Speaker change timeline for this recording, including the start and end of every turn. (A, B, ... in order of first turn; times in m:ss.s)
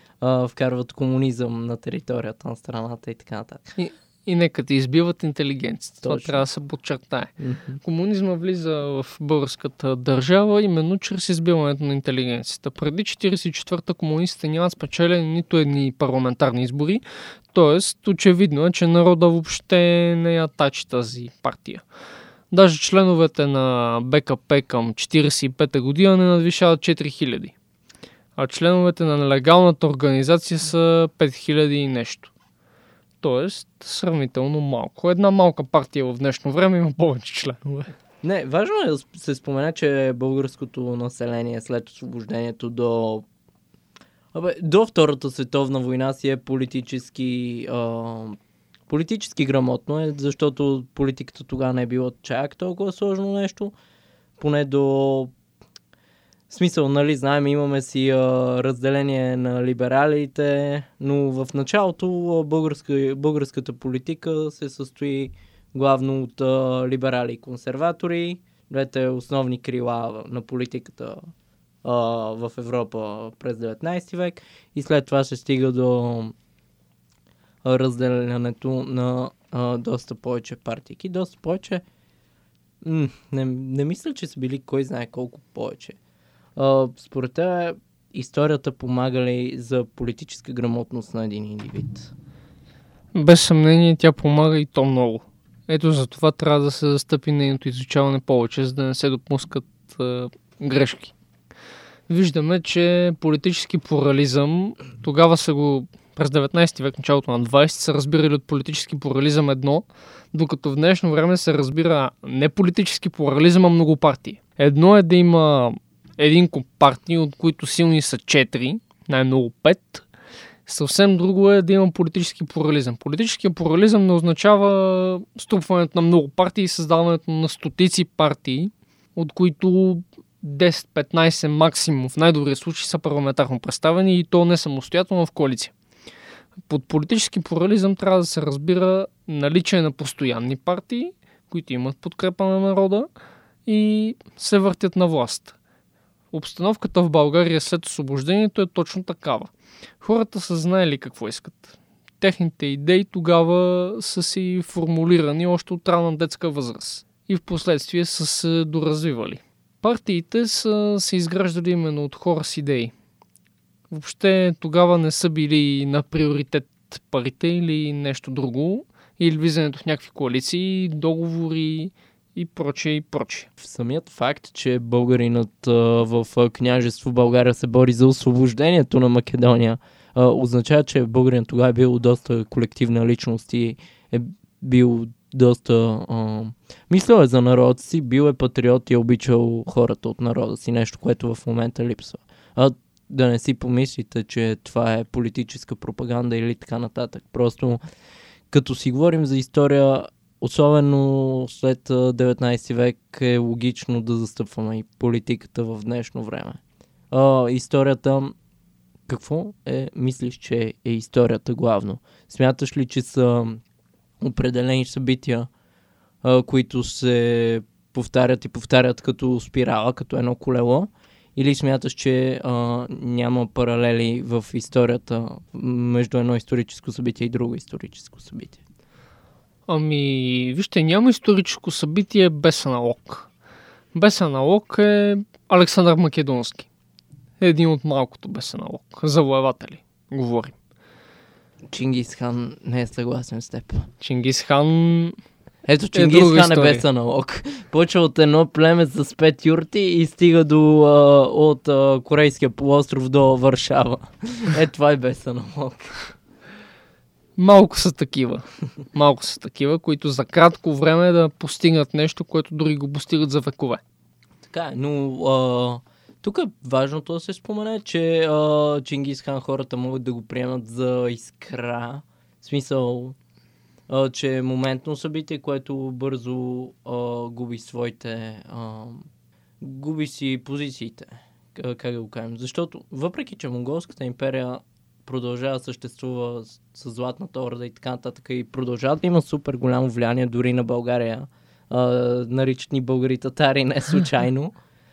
0:00.2-0:03.8 A
0:03.8-0:07.3 B
0:06.0-0:06.4 A
0:07.4-0:07.8 A
0:07.8-0:21.8 B
0:22.5-0:27.5 B
0:28.4-0:32.3 B
0:33.2-0:37.9 B
0:38.2-0:43.2 A
0:44.3-0:48.4 A
0:48.9-0:53.7 A
0:54.4-0:55.3 A
0:56.5-1:11.2 A
1:11.8-1:16.3 A
1:17.6-1:21.8 A
1:22.8-1:26.0 A
1:26.6-1:32.1 A
1:33.1-1:41.1 B
1:42.1-2:00.0 B
2:00.6-2:15.7 B
2:16.7-2:23.1 B
2:23.6-2:25.6 B
2:26.3-2:42.9 B
2:43.9-2:53.5 B
2:53.6-3:17.8 A
3:18.5-3:26.6 A
3:27.1-3:28.3 A
3:29.1-3:33.6 A
3:34.2-3:35.5 A
3:36.2-3:48.6 A
3:49.7-3:53.3 B
3:53.9-3:56.7 B
3:57.4-4:00.5 B
4:01.7-4:03.9 A
4:04.0-4:05.2 B
4:05.6-4:16.1 A
4:05.9-4:06.8 B
4:17.4-4:23.8 B
4:24.4-4:33.2 A
4:33.9-4:39.0 A
4:39.6-4:54.5 A